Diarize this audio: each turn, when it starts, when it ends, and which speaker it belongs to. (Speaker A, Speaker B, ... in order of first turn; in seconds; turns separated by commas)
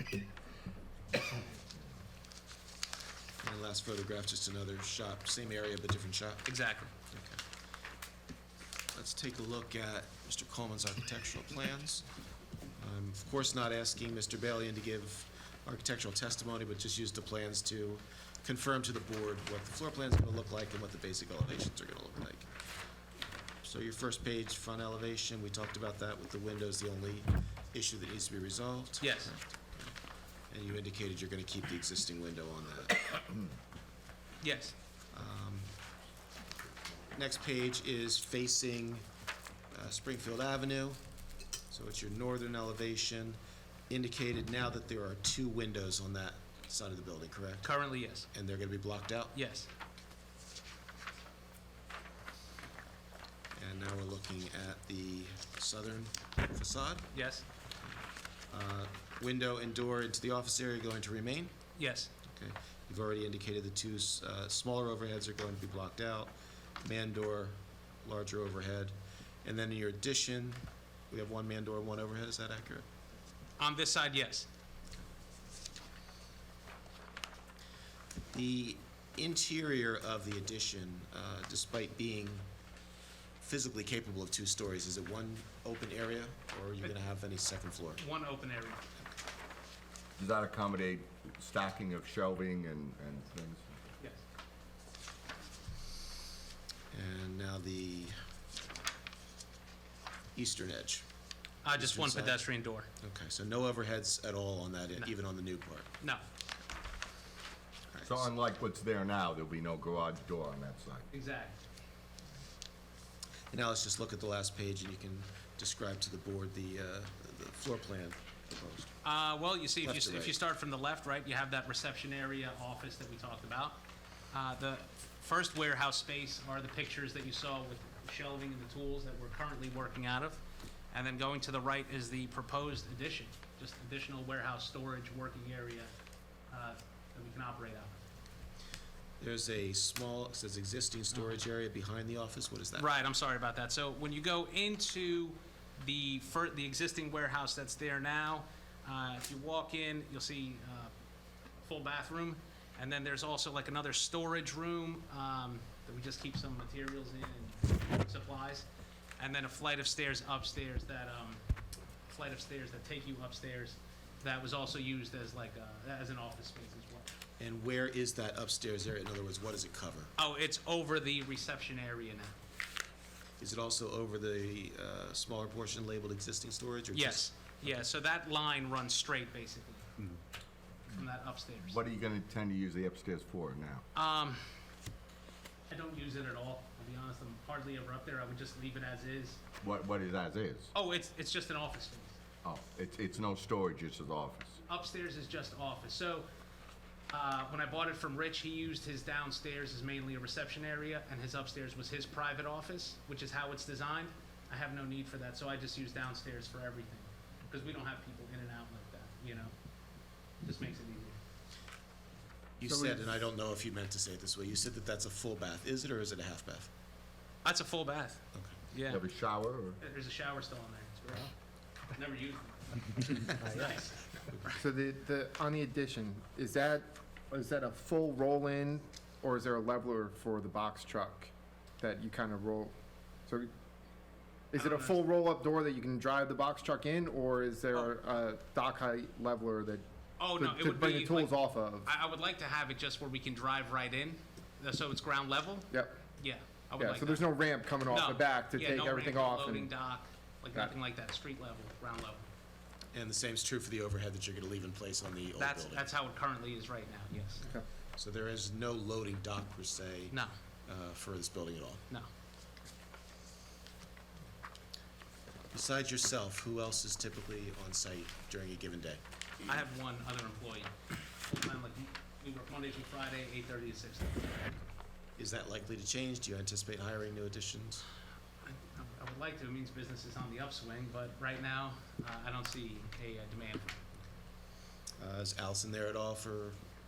Speaker A: 3.4-6.5, Speaker B: 6.5-6.9, Speaker A: 7.1-7.4, Speaker A: 8.9-12.1, Speaker A: 12.8-22.5, Speaker A: 23.6-29.9, Speaker B: 29.0-29.3, Speaker A: 30.5-33.1, Speaker B: 34.4-34.7, Speaker A: 35.1-35.7, Speaker A: 37.1-39.0, Speaker A: 39.7-41.0, Speaker A: 41.7-43.4, Speaker A: 43.9-47.7, Speaker B: 47.6-48.3, Speaker A: 48.3-49.4, Speaker B: 49.3-49.7, Speaker A: 53.5-57.1, Speaker B: 57.1-57.5, Speaker A: 58.5-61.6, Speaker B: 61.8-62.1, Speaker A: 62.2-72.9, Speaker B: 73.6-74.5, Speaker A: 78.3-82.5, Speaker A: 83.4-88.0, Speaker B: 88.0-88.8, Speaker C: 90.2-93.8, Speaker A: 96.9-98.2, Speaker A: 100.3-101.0, Speaker B: 101.6-102.9, Speaker A: 101.7-102.4, Speaker A: 103.0-105.9, Speaker A: 107.9-108.3, Speaker C: 108.0-111.0, Speaker B: 111.1-111.6, Speaker A: 113.5-118.9, Speaker B: 119.0-123.8, Speaker A: 119.8-120.4, Speaker B: 124.3-130.4, Speaker B: 130.9-135.9, Speaker B: 136.5-138.0, Speaker A: 139.2-142.9, Speaker B: 142.8-150.9, Speaker B: 151.6-158.7, Speaker B: 159.2-161.4, Speaker B: 162.1-167.1, Speaker A: 167.4-170.1, Speaker B: 170.2-172.3, Speaker A: 173.4-177.7, Speaker B: 176.9-179.9, Speaker B: 180.9-181.8, Speaker C: 181.6-183.8, Speaker B: 183.9-184.4, Speaker B: 185.7-189.4, Speaker C: 189.6-190.7, Speaker B: 190.7-192.2, Speaker C: 192.4-194.6, Speaker B: 194.7-196.3, Speaker B: 197.1-209.5, Speaker B: 210.4-211.2, Speaker A: 212.6-216.7, Speaker D: 212.7-213.1, Speaker B: 217.4-219.0, Speaker A: 218.3-218.6, Speaker C: 218.9-219.8, Speaker B: 219.8-221.3, Speaker B: 221.9-224.6, Speaker D: 224.5-232.7, Speaker D: 234.5-239.8, Speaker B: 234.5-235.0, Speaker B: 240.2-241.3, Speaker D: 240.4-241.9, Speaker B: 241.8-247.3, Speaker D: 245.7-246.0, Speaker D: 246.8-249.7, Speaker B: 247.8-252.2, Speaker A: 252.9-255.9, Speaker B: 255.4-257.5, Speaker A: 257.9-260.1, Speaker A: 260.7-261.8, Speaker A: 265.5-269.0, Speaker B: 269.4-270.7, Speaker B: 271.2-274.6, Speaker A: 275.2-277.8, Speaker B: 278.4-284.1, Speaker A: 285.0-286.6